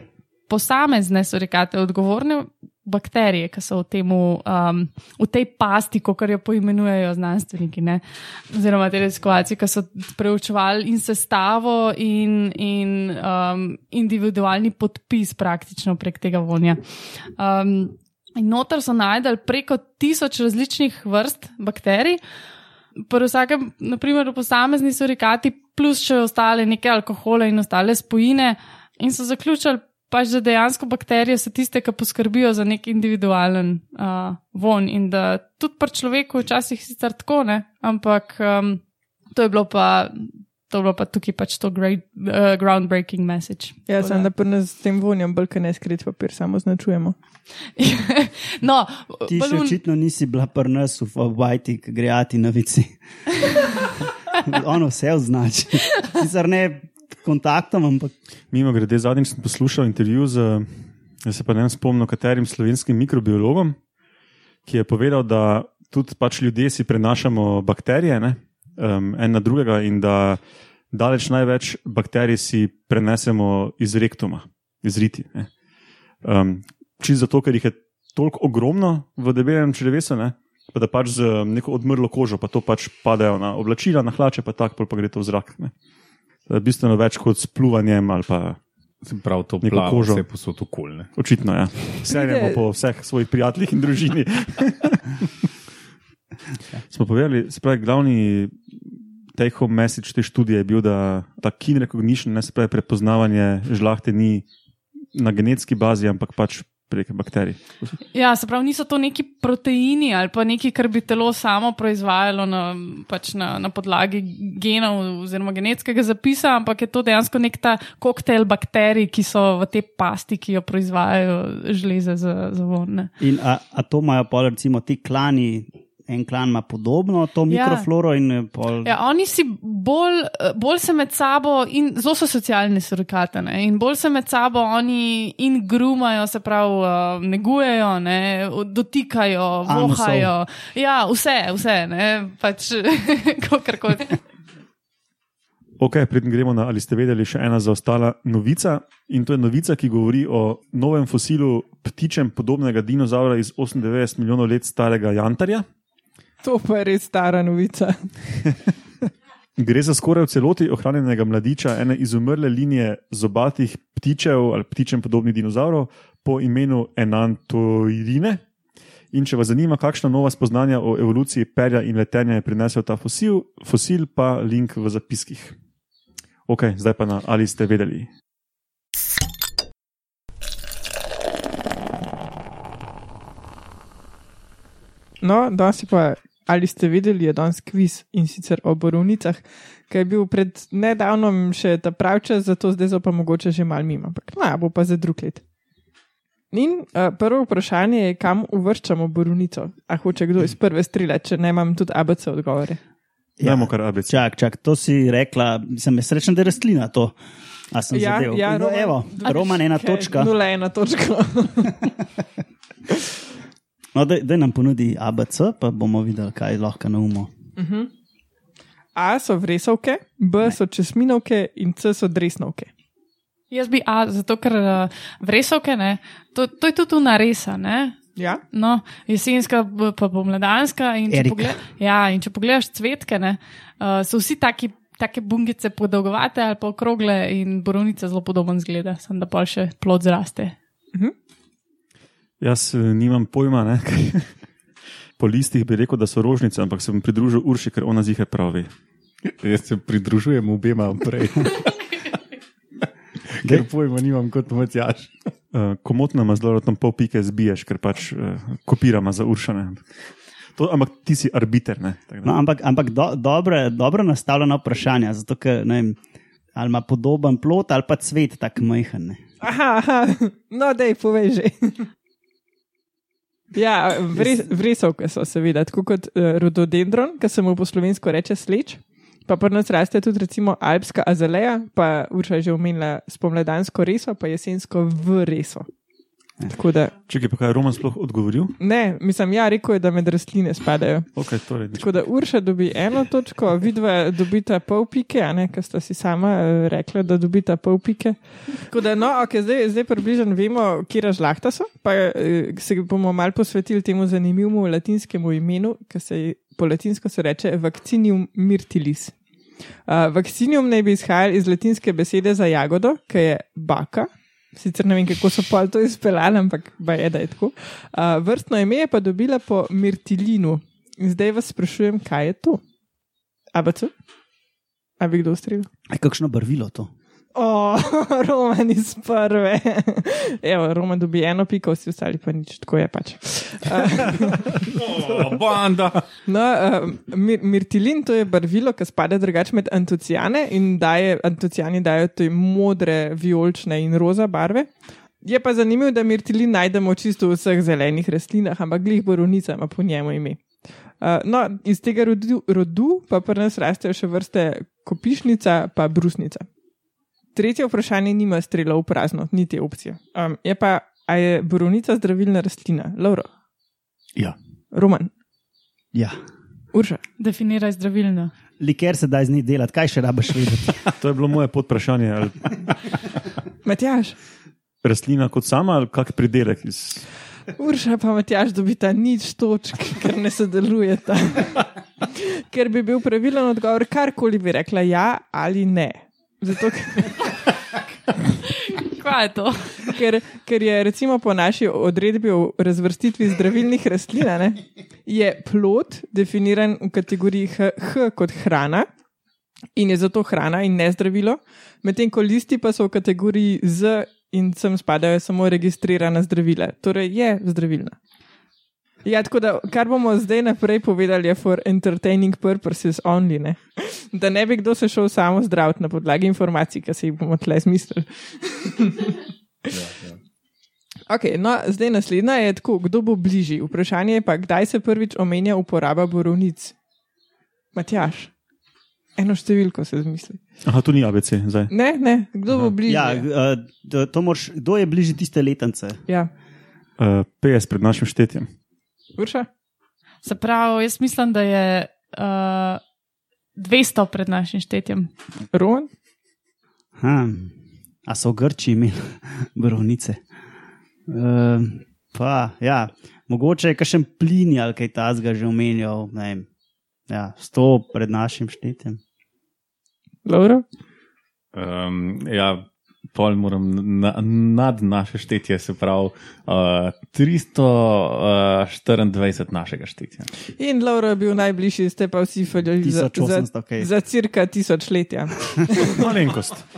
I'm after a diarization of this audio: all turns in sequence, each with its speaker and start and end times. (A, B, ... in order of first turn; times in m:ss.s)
0:00.5-0:22.2 A
0:23.0-0:44.3 A
0:43.9-0:47.1 B
0:47.8-0:49.8 A
0:49.3-0:53.0 C
0:54.4-0:58.1 C
0:58.5-1:00.7 D
1:01.2-1:03.8 D
1:04.6-1:10.4 D
1:10.9-1:15.5 D
1:16.2-1:25.7 D
1:26.5-1:28.6 D
1:29.0-1:31.1 E
1:29.6-1:30.2 D
1:31.1-1:35.1 D
1:32.1-1:32.6 B
1:36.9-1:44.4 D
1:45.1-1:48.0 D
1:48.1-2:03.1 A
2:03.2-2:08.9 C
2:07.5-2:07.9 A
2:08.8-2:24.2 A
2:19.6-2:20.3 C
2:25.8-2:35.6 D
2:36.4-2:38.1 B
2:39.6-2:48.4 D
2:49.1-2:55.5 D
2:56.5-2:58.1 D
3:05.2-3:15.4 B
3:16.5-3:22.8 B
3:23.4-3:27.2 C
3:23.4-3:24.2 D
3:27.7-3:30.3 C
3:27.9-3:31.9 B
3:33.9-3:37.3 C
3:37.6-3:37.9 B
3:39.0-3:42.7 B
3:43.5-3:48.0 A
3:48.5-4:00.5 A
3:51.1-3:51.6 C
4:02.4-4:04.3 D
4:05.2-4:08.7 D
4:09.2-4:12.1 E
4:13.3-4:15.1 E
4:15.5-4:19.9 D
4:20.6-4:22.3 D
4:22.2-4:26.0 C
4:26.5-4:29.2 C
4:29.4-4:31.8 B
4:33.5-4:45.7 B
4:46.5-4:46.9 B
4:47.1-4:48.6 D
4:48.6-4:51.1 B
4:51.1-4:52.0 D
4:51.7-5:09.1 B
5:09.8-5:22.6 B
5:23.5-5:23.9 B
5:25.0-5:25.7 B
5:25.9-5:26.9 C
5:27.3-5:34.6 B
5:34.2-5:36.0 E
5:36.2-5:44.7 B
5:45.2-5:50.4 B
5:51.0-5:56.4 B
5:57.3-6:03.3 B
6:04.7-6:05.1 B
6:06.7-6:07.0 B
6:07.2-6:08.3 A
6:08.6-6:10.8 C
6:11.0-6:12.7 D
6:13.6-6:14.2 B
6:14.8-6:17.0 D
6:17.6-6:27.2 B
6:28.6-6:29.9 A
6:29.8-6:38.9 B
6:39.8-6:48.0 B
6:49.0-6:59.1 B
6:59.7-7:00.2 E
7:01.1-7:06.7 B
7:07.7-7:08.3 B
7:09.2-7:10.4 B
7:10.6-7:11.7 D
7:11.7-7:13.2 B
7:12.9-7:16.0 C
7:17.0-7:18.5 D
7:19.2-7:19.5 B
7:20.2-7:22.8 A
7:23.6-7:25.1 A
7:25.5-7:25.9 B
7:27.0-7:27.5 C
7:28.1-7:30.2 C
7:31.1-7:36.4 C
7:37.1-7:39.0 C
7:40.2-7:40.6 B
7:41.5-7:50.3 E
7:50.6-7:56.1 B
7:52.8-7:53.9 C
7:55.9-7:56.6 D